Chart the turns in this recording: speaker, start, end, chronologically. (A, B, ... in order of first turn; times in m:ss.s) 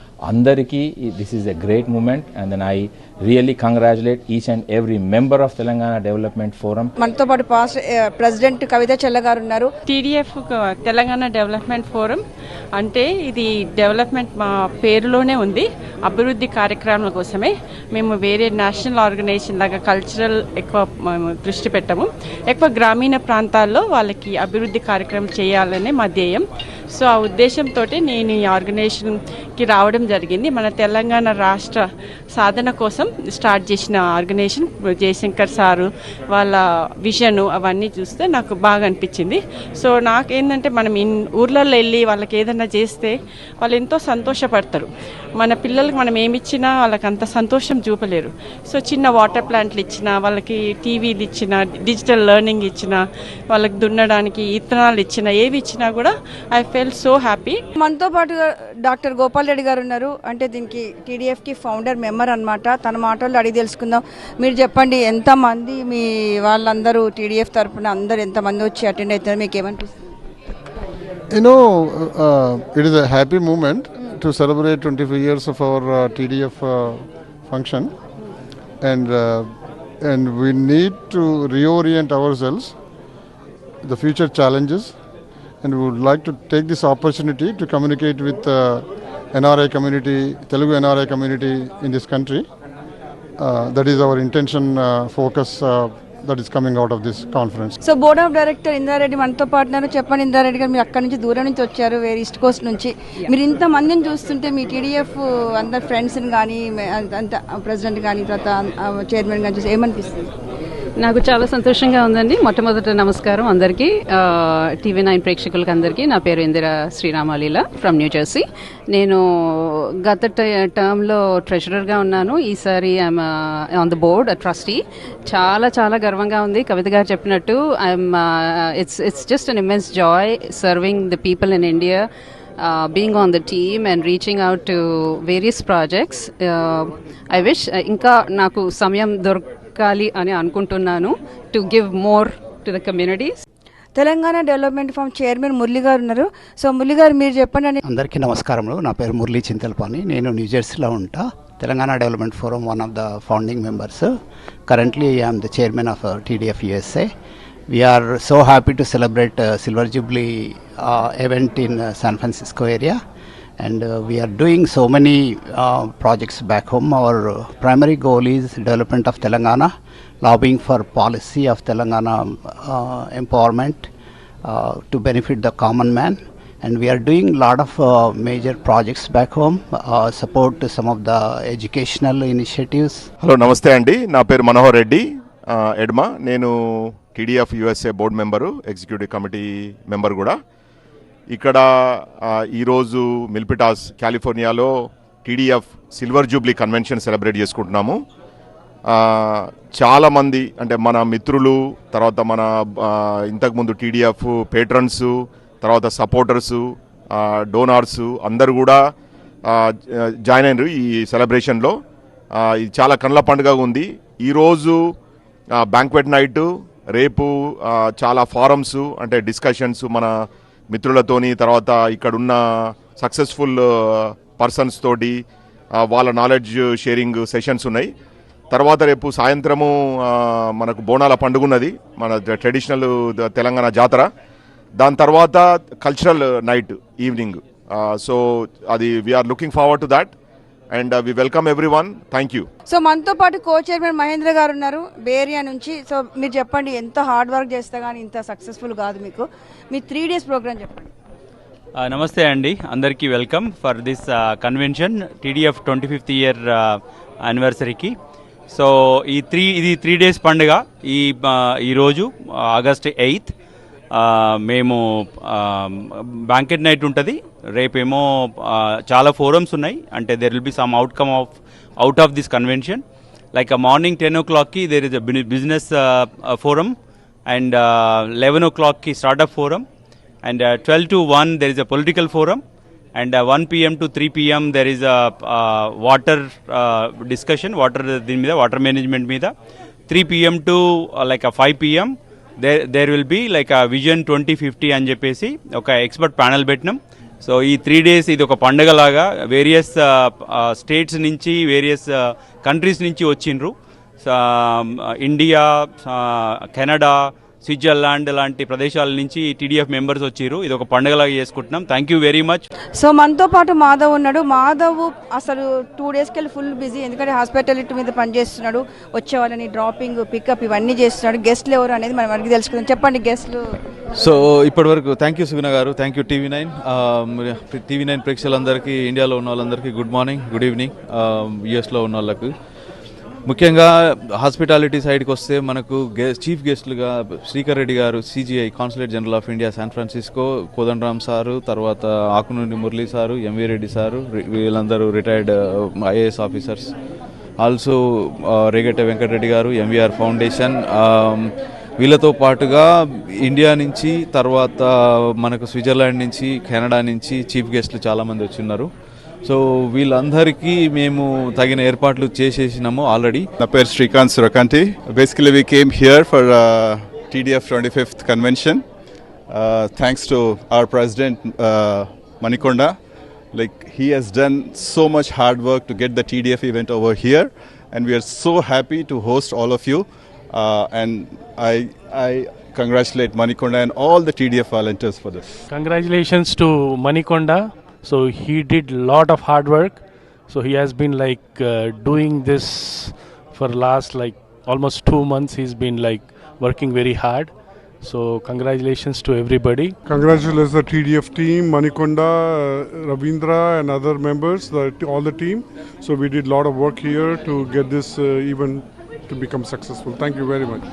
0:00.3-0:06.9 A
0:07.0-0:09.7 B
0:09.9-0:57.6 C
0:57.8-1:10.1 B
1:11.3-1:17.9 D
1:18.8-1:19.5 D
1:20.0-1:22.7 D
1:23.8-1:24.9 D
1:25.6-1:32.4 D
1:33.4-1:37.8 D
1:37.8-1:50.3 B
1:51.0-2:12.1 E
2:12.6-2:23.4 E
2:24.0-2:27.8 B
2:27.8-2:34.2 F
2:34.7-2:37.1 F
2:37.7-2:43.0 F
2:43.6-2:53.9 F
2:54.4-3:03.1 F
3:03.2-3:10.4 G
3:11.3-3:14.7 G
3:15.2-3:18.0 G
3:18.9-3:28.8 G
3:29.5-3:31.8 G
3:32.4-3:34.8 G
3:35.6-3:40.2 G
3:40.7-3:45.2 G
3:45.8-3:47.9 G
3:48.5-3:54.1 G
3:54.8-4:00.1 G
4:00.7-4:02.5 G
4:02.7-4:10.9 B
4:11.8-4:17.9 H
4:18.5-4:23.3 H
4:23.9-4:32.8 H
4:33.3-4:36.8 H
4:37.3-4:39.6 H
4:40.2-4:42.4 H
4:43.0-4:49.3 H
4:49.9-5:12.5 H
5:12.8-5:23.4 B
5:24.0-5:32.3 I
5:33.3-5:46.7 I
5:47.4-5:47.8 I
5:48.3-5:51.3 I
5:51.8-5:52.7 I
5:53.3-5:54.7 I
5:55.2-5:58.7 I
5:59.3-6:03.3 I
6:03.4-6:08.6 J
6:09.3-6:12.8 J
6:13.3-6:25.4 J
6:25.5-6:39.8 K
6:39.9-6:42.2 D
6:42.9-6:50.6 D